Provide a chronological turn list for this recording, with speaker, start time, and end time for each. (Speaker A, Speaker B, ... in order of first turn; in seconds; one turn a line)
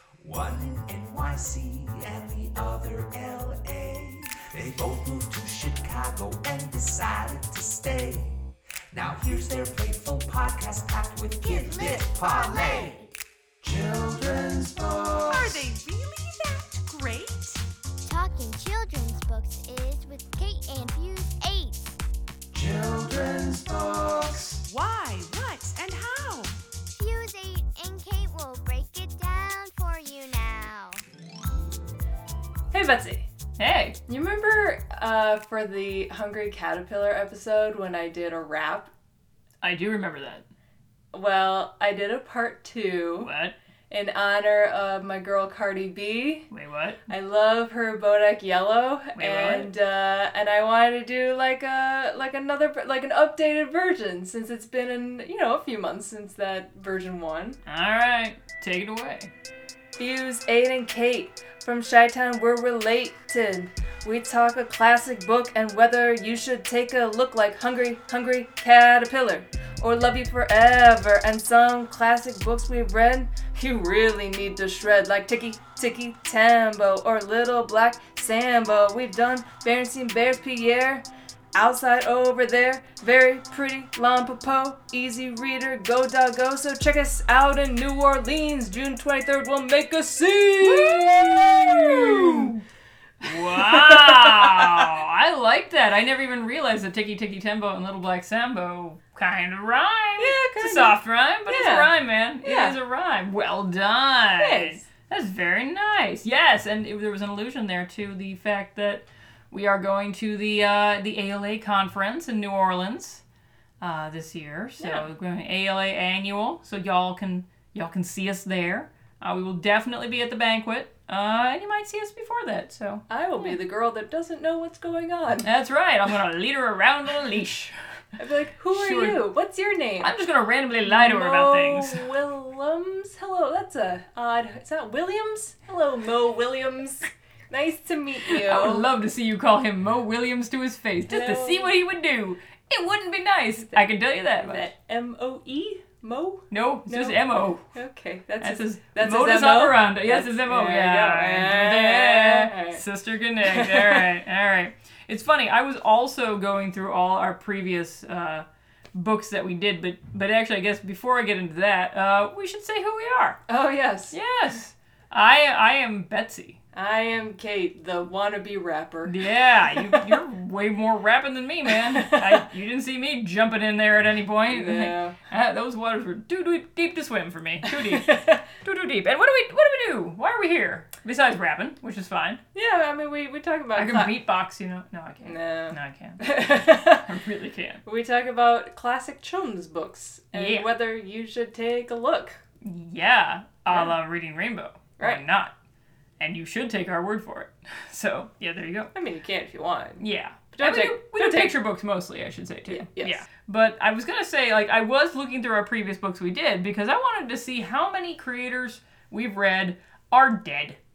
Speaker A: 0.2-13.1
Speaker B: 11.4-13.1
Speaker A: 13.6-15.7
Speaker C: 15.3-17.6
Speaker B: 18.0-22.0
Speaker A: 22.5-24.6
Speaker C: 24.6-26.6
Speaker B: 26.9-31.0
Speaker D: 32.7-33.2
Speaker E: 33.6-34.0
Speaker D: 34.1-38.9
Speaker E: 39.6-40.5
Speaker D: 41.1-43.3
Speaker E: 43.2-43.5
Speaker D: 43.9-46.5
Speaker E: 46.5-47.0
Speaker D: 47.1-57.6
Speaker E: 49.1-49.7
Speaker E: 57.6-59.3
Speaker D: 60.0-92.5
Speaker E: 90.6-92.6
Speaker E: 93.2-113.2
Speaker D: 93.2-94.9
Speaker D: 100.2-101.9
Speaker D: 102.4-102.7
Speaker D: 104.4-104.8
Speaker E: 113.8-123.5
Speaker D: 114.8-115.1
Speaker D: 123.1-125.5
Speaker E: 125.4-127.7
Speaker D: 128.2-130.1
Speaker E: 128.7-129.3
Speaker E: 130.0-132.1
Speaker D: 130.8-138.9
Speaker E: 138.3-144.7
Speaker D: 141.1-141.7
Speaker D: 143.7-147.2
Speaker E: 146.5-147.7
Speaker D: 147.7-152.8
Speaker E: 148.4-163.4
Speaker D: 153.4-154.1
Speaker D: 163.5-164.2
Speaker E: 164.1-166.6
Speaker D: 166.7-170.1
Speaker E: 169.1-182.4
Speaker D: 171.7-172.4
Speaker D: 174.5-175.2
Speaker D: 177.6-178.5
Speaker D: 182.5-184.1
Speaker E: 183.7-187.8
Speaker D: 185.2-187.1
Speaker D: 187.8-192.4
Speaker E: 190.3-190.7
Speaker E: 192.6-195.5
Speaker D: 193.7-193.9
Speaker E: 196.2-198.9
Speaker D: 198.9-201.6
Speaker E: 200.0-210.8
Speaker D: 202.7-203.2